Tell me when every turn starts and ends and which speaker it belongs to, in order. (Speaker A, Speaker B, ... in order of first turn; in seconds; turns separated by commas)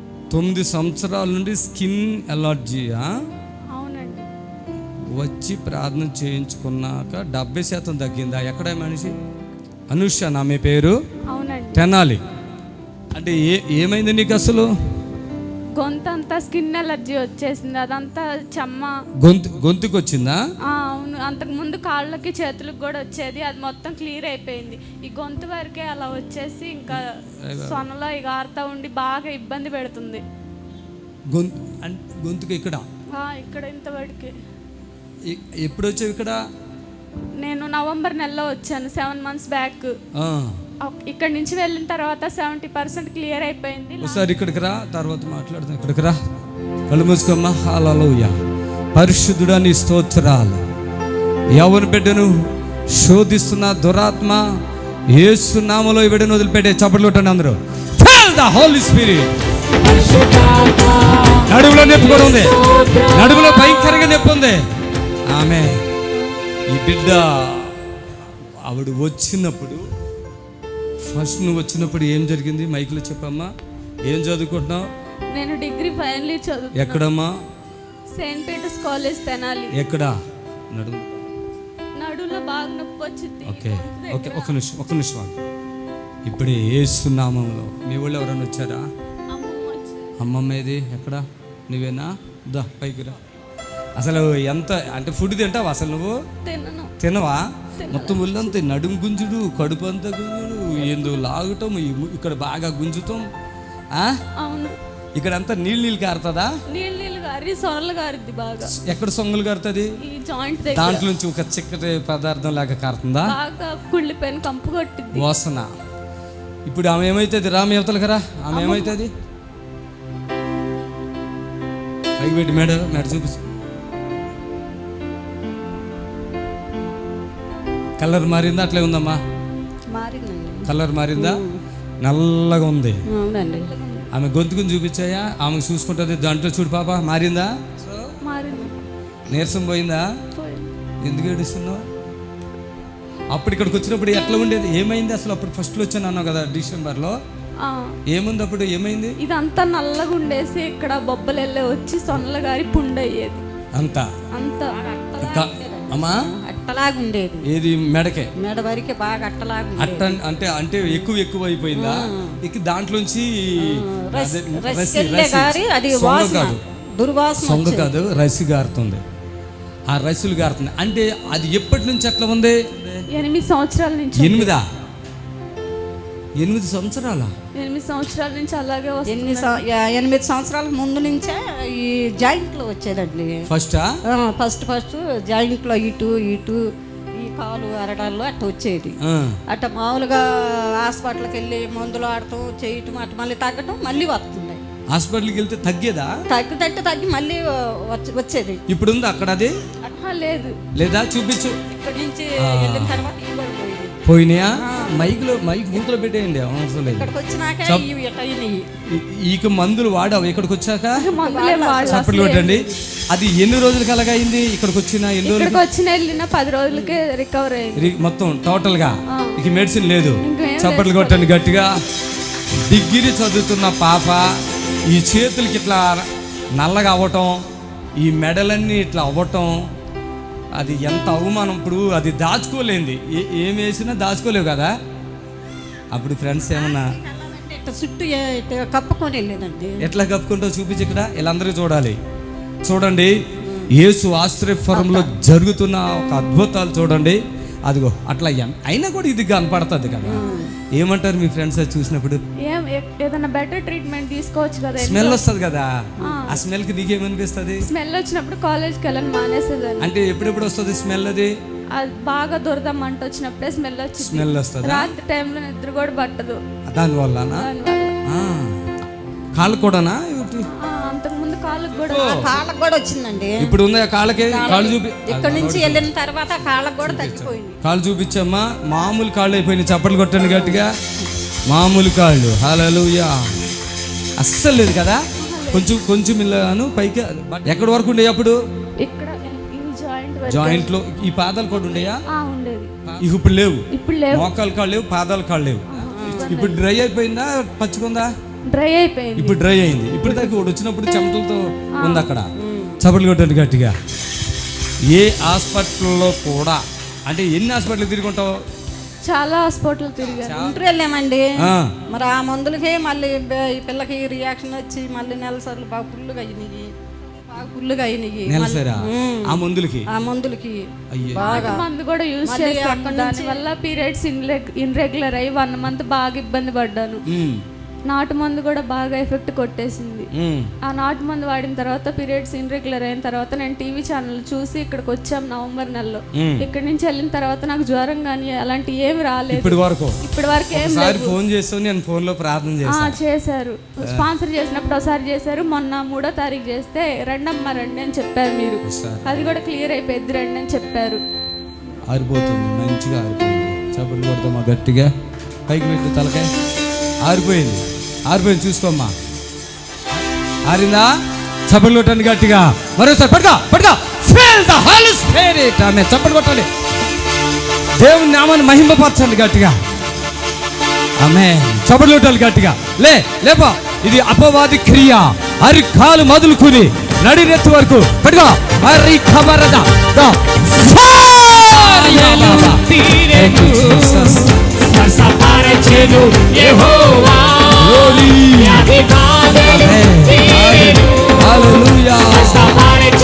Speaker A: 0.3-3.1, Speaker B: 3.7-4.3, Speaker A: 5.1-9.1, Speaker A: 9.9-10.9, Speaker B: 11.3-11.8, Speaker A: 11.7-12.2, Speaker A: 13.1-14.7, Speaker B: 15.8-19.0, Speaker A: 19.2-20.4, Speaker B: 20.6-30.2, Speaker A: 26.9-27.8, Speaker A: 31.3-32.9, Speaker B: 33.1-34.4, Speaker A: 35.2-36.4, Speaker B: 37.4-40.0, Speaker A: 40.1-40.6, Speaker B: 40.8-44.3, Speaker A: 44.0-46.2, Speaker A: 46.9-48.4, Speaker A: 49.0-50.6, Speaker A: 51.5-52.3, Speaker A: 52.9-54.4, Speaker A: 55.1-59.3, Speaker B: 60.1-60.5, Speaker A: 61.4-64.6, Speaker A: 65.3-65.8, Speaker A: 66.7-67.8, Speaker A: 68.7-69.8, Speaker A: 71.0-73.5, Speaker A: 74.1-74.9, Speaker B: 75.3-77.0, Speaker A: 76.8-77.3, Speaker B: 78.1-79.8, Speaker A: 79.7-80.2, Speaker A: 80.7-81.3, Speaker B: 82.0-84.6, Speaker A: 83.5-85.4, Speaker A: 86.3-88.9, Speaker B: 89.3-90.2, Speaker A: 90.2-93.2, Speaker A: 94.0-96.2, Speaker B: 96.5-96.9, Speaker A: 97.0-103.3, Speaker B: 97.8-98.5, Speaker B: 104.4-104.8, Speaker A: 105.2-106.5, Speaker B: 106.7-108.8, Speaker A: 108.8-109.9, Speaker B: 110.0-111.0, Speaker A: 110.7-113.3, Speaker B: 113.3-115.2, Speaker A: 115.1-115.7, Speaker A: 116.7-119.1, Speaker B: 118.5-119.0, Speaker A: 122.2-123.4, Speaker A: 128.0-129.2, Speaker C: 129.9-131.6, Speaker A: 130.7-131.4, Speaker A: 132.0-133.0, Speaker C: 133.1-133.7, Speaker B: 133.3-134.1, Speaker A: 134.1-138.1, Speaker B: 138.2-138.8, Speaker A: 139.3-140.1, Speaker B: 140.4-140.7, Speaker A: 141.0-141.9, Speaker A: 143.3-147.2, Speaker B: 147.6-148.0, Speaker A: 148.1-149.2, Speaker B: 149.2-153.4, Speaker A: 153.7-154.1, Speaker B: 154.3-154.8, Speaker C: 154.7-157.5, Speaker A: 155.2-156.2, Speaker A: 157.5-158.3, Speaker C: 158.4-160.2, Speaker A: 159.8-166.6, Speaker C: 161.7-162.4, Speaker C: 163.6-167.9, Speaker A: 167.4-169.0, Speaker A: 169.9-173.1, Speaker B: 173.1-174.5, Speaker A: 174.2-174.6, Speaker A: 176.4-177.3, Speaker B: 177.6-179.6, Speaker C: 179.1-183.4, Speaker A: 183.5-183.8, Speaker C: 184.1-186.6, Speaker C: 187.2-189.0, Speaker A: 189.0-189.4, Speaker C: 189.5-194.6, Speaker A: 194.9-196.1, Speaker C: 196.3-198.6, Speaker A: 198.7-199.5, Speaker B: 200.0-200.6, Speaker A: 200.7-201.6, Speaker C: 201.7-204.0, Speaker A: 202.4-203.0, Speaker A: 204.1-207.1, Speaker C: 204.6-205.2, Speaker C: 206.8-208.7, Speaker A: 208.9-211.0, Speaker B: 211.0-212.8, Speaker C: 211.1-212.1, Speaker A: 211.9-215.6, Speaker B: 215.2-218.0, Speaker C: 216.7-217.0, Speaker A: 217.8-221.7, Speaker B: 219.1-219.4, Speaker B: 220.2-221.3, Speaker A: 222.7-224.3, Speaker A: 224.9-227.4, Speaker A: 228.0-229.5, Speaker A: 230.5-234.7, Speaker A: 235.9-236.9, Speaker C: 236.5-239.9, Speaker A: 239.8-242.0, Speaker A: 242.7-243.2, Speaker A: 243.8-250.2, Speaker C: 244.7-245.1, Speaker C: 250.0-250.5, Speaker B: 250.2-250.5, Speaker A: 250.8-252.2, Speaker B: 252.4-255.2, Speaker A: 254.8-255.7, Speaker B: 256.0-256.4, Speaker A: 256.3-257.6, Speaker B: 257.6-259.9, Speaker A: 259.8-261.3, Speaker B: 261.7-266.4, Speaker A: 264.0-264.9, Speaker A: 266.7-267.5, Speaker B: 267.3-268.0, Speaker A: 268.1-268.6, Speaker A: 269.4-270.5, Speaker B: 270.5-272.4, Speaker A: 271.8-272.3, Speaker C: 272.1-273.6, Speaker A: 273.4-275.9, Speaker C: 274.3-277.6, Speaker A: 276.8-280.7, Speaker C: 280.3-280.6, Speaker A: 281.5-283.1, Speaker A: 284.2-285.0, Speaker B: 285.2-285.7, Speaker A: 285.5-288.4, Speaker B: 288.8-290.7, Speaker A: 290.3-292.0, Speaker B: 292.1-292.8, Speaker A: 292.9-298.1, Speaker B: 293.7-294.3, Speaker B: 295.7-296.6, Speaker C: 295.9-296.4, Speaker B: 298.5-299.4, Speaker A: 299.2-302.3, Speaker B: 300.0-300.4, Speaker B: 301.8-302.1, Speaker C: 302.4-302.8, Speaker A: 302.8-303.7, Speaker A: 304.9-308.4, Speaker B: 309.0-310.4, Speaker A: 310.2-310.7, Speaker C: 310.4-311.3, Speaker A: 311.4-311.7, Speaker C: 311.9-321.7, Speaker A: 318.3-319.9, Speaker A: 320.9-321.5, Speaker B: 321.2-327.0, Speaker C: 322.2-323.4, Speaker A: 327.1-327.4, Speaker B: 327.9-330.1, Speaker A: 330.1-330.5, Speaker B: 330.6-341.2, Speaker A: 336.1-336.5, Speaker A: 339.3-340.0, Speaker A: 340.5-343.0, Speaker B: 342.7-351.0, Speaker A: 348.6-349.4, Speaker A: 351.9-354.9, Speaker A: 355.5-356.3, Speaker A: 357.0-358.9, Speaker A: 360.5-360.9, Speaker A: 361.5-366.5, Speaker A: 367.8-369.6, Speaker A: 371.0-384.4, Speaker B: 384.9-387.2, Speaker A: 387.4-388.8, Speaker A: 389.4-392.7